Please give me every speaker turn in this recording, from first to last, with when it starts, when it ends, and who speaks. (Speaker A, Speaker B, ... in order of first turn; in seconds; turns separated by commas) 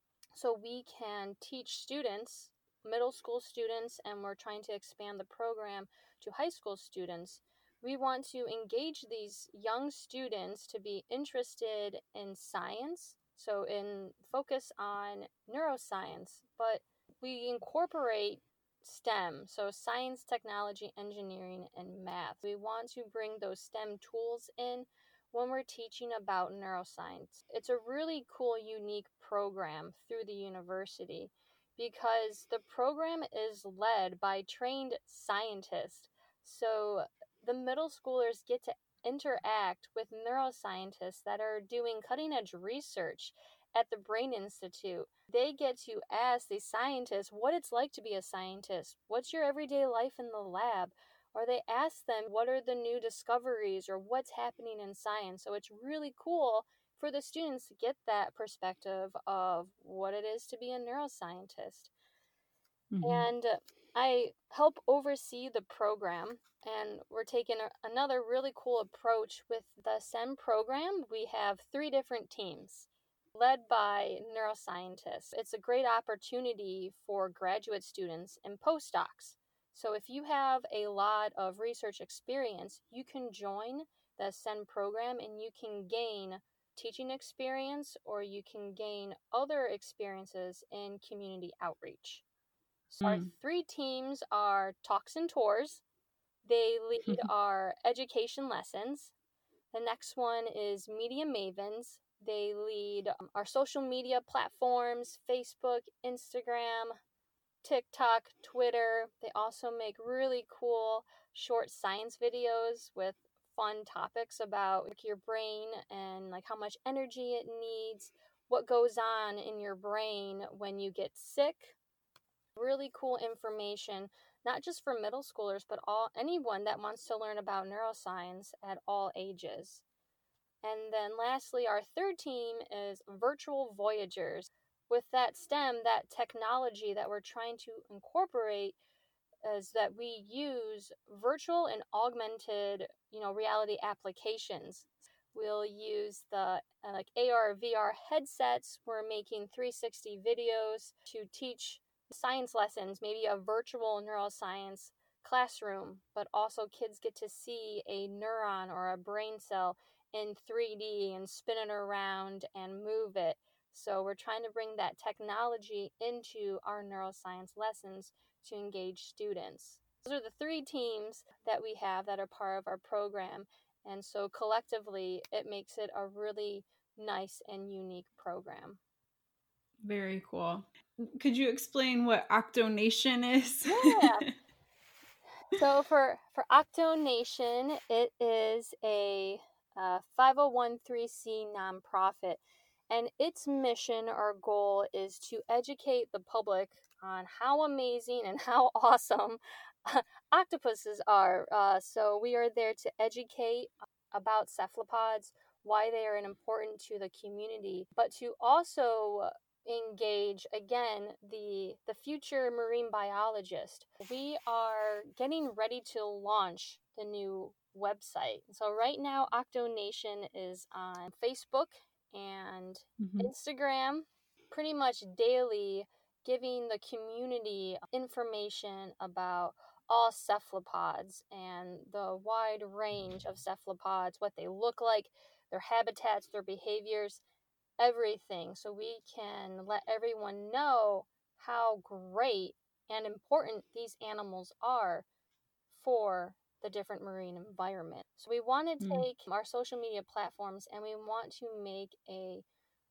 Speaker A: 0.3-61.9, Speaker B: 62.9-63.3, Speaker A: 63.0-92.2, Speaker A: 92.9-95.8, Speaker B: 93.0-93.3, Speaker A: 96.4-99.1, Speaker A: 99.7-106.9, Speaker A: 107.6-121.8, Speaker A: 122.6-129.8, Speaker A: 130.6-138.8, Speaker A: 139.4-178.8, Speaker B: 179.8-184.3, Speaker A: 183.7-184.3, Speaker A: 185.5-237.2, Speaker B: 223.0-223.3, Speaker A: 237.8-245.1, Speaker A: 245.7-252.4, Speaker B: 248.8-249.1